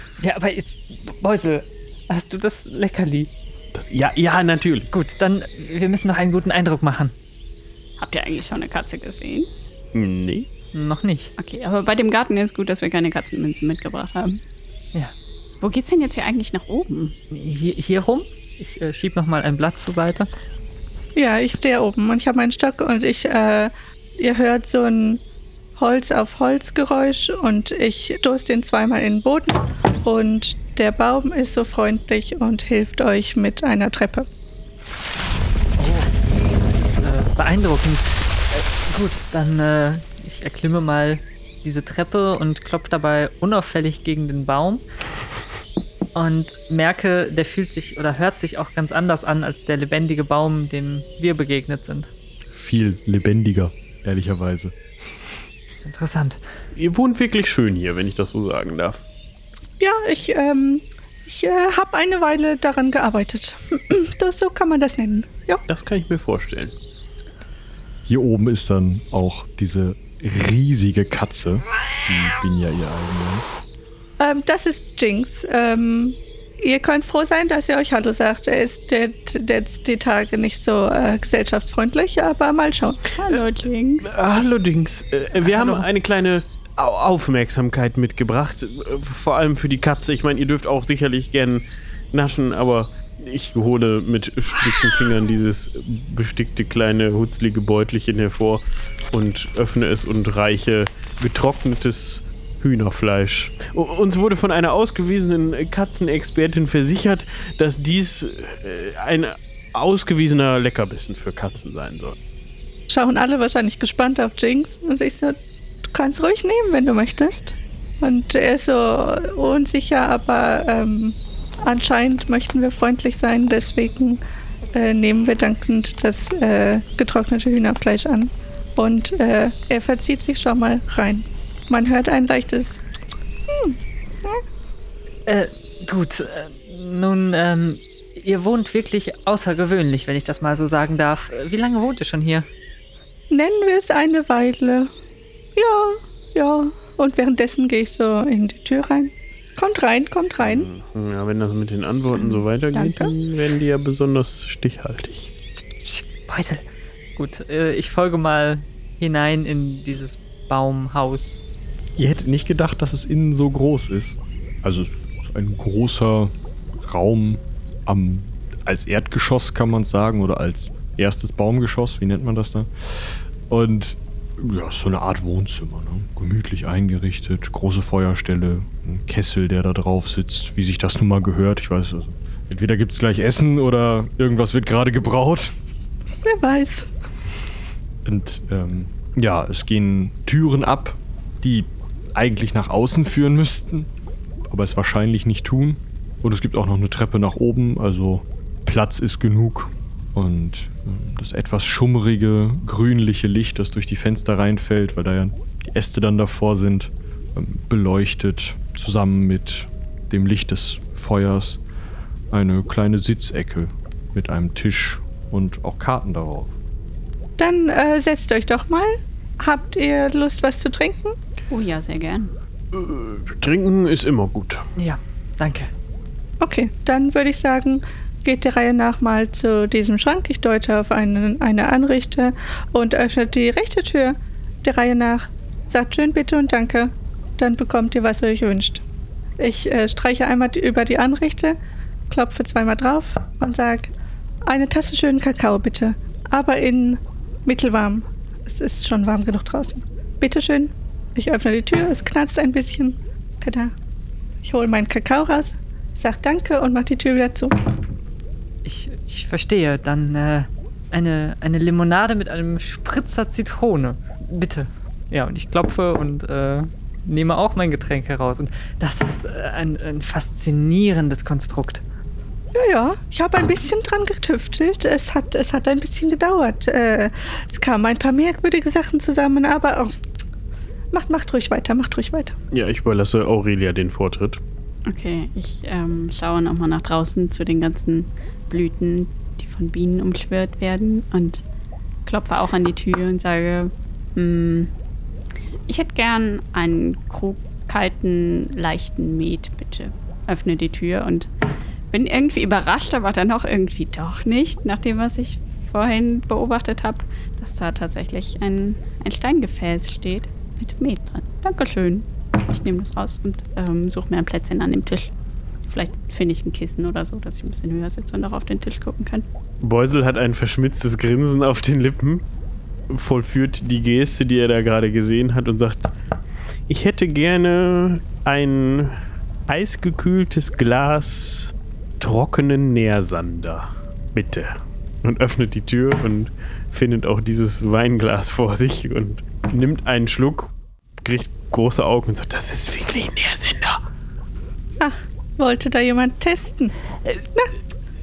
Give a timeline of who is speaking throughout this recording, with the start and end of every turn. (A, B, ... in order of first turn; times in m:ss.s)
0:00.2-0:03.3 A
0:03.7-0:04.9 B
0:04.9-0:07.1 A
0:08.0-0:09.5 C
0:09.9-0:10.5 B
0:10.7-0:11.3 A
0:11.4-0:14.4 C
0:15.6-0:17.2 C
0:17.3-0:20.3 A
0:21.1-0:25.2 D
0:25.8-0:34.3 D
0:35.8-0:44.8 A
0:46.1-0:52.1 A
0:52.5-0:54.8 E
0:55.8-0:56.4 A
0:56.7-0:59.0 B
0:59.8-1:05.6 D
1:05.7-1:06.7 B
1:08.1-1:13.5 E
1:14.2-1:23.1 D
1:23.2-1:24.5 C
1:24.0-1:52.2 B
1:25.4-1:25.8 A
1:52.9-2:04.2 D
2:04.7-2:12.8 D
2:13.5-2:14.4 D
2:15.3-2:22.4 A
2:23.3-2:24.9 D
2:25.6-2:30.7 D
2:30.4-2:35.3 B
2:32.1-2:33.1 C
2:35.8-2:36.6 A
2:37.2-2:41.4 A
2:42.0-3:05.6 E
3:06.2-3:06.9 D
3:08.0-3:13.9 E
3:14.5-3:31.6 E
3:32.3-3:36.5 E
3:37.4-3:41.2 D
3:41.5-3:42.3 C
3:42.7-3:44.6 B
3:44.8-3:45.7 A
3:46.4-3:58.8 D
3:59.4-4:01.6 D
4:02.1-4:03.9 D
4:04.4-4:13.7 D
4:14.4-4:17.6 D
4:18.6-4:31.8 A
4:32.5-4:39.9 D
4:40.9-4:42.3 D
4:42.5-4:44.4 B
4:44.9-4:51.4 C
4:52.0-4:54.7 C
4:55.7-5:01.3 C
5:01.9-5:15.1 C
5:15.7-5:19.3 C
5:19.6-5:22.2 B
5:22.9-5:25.9 B
5:26.7-5:40.5 B
5:41.0-5:43.8 B
5:44.8-5:46.7 D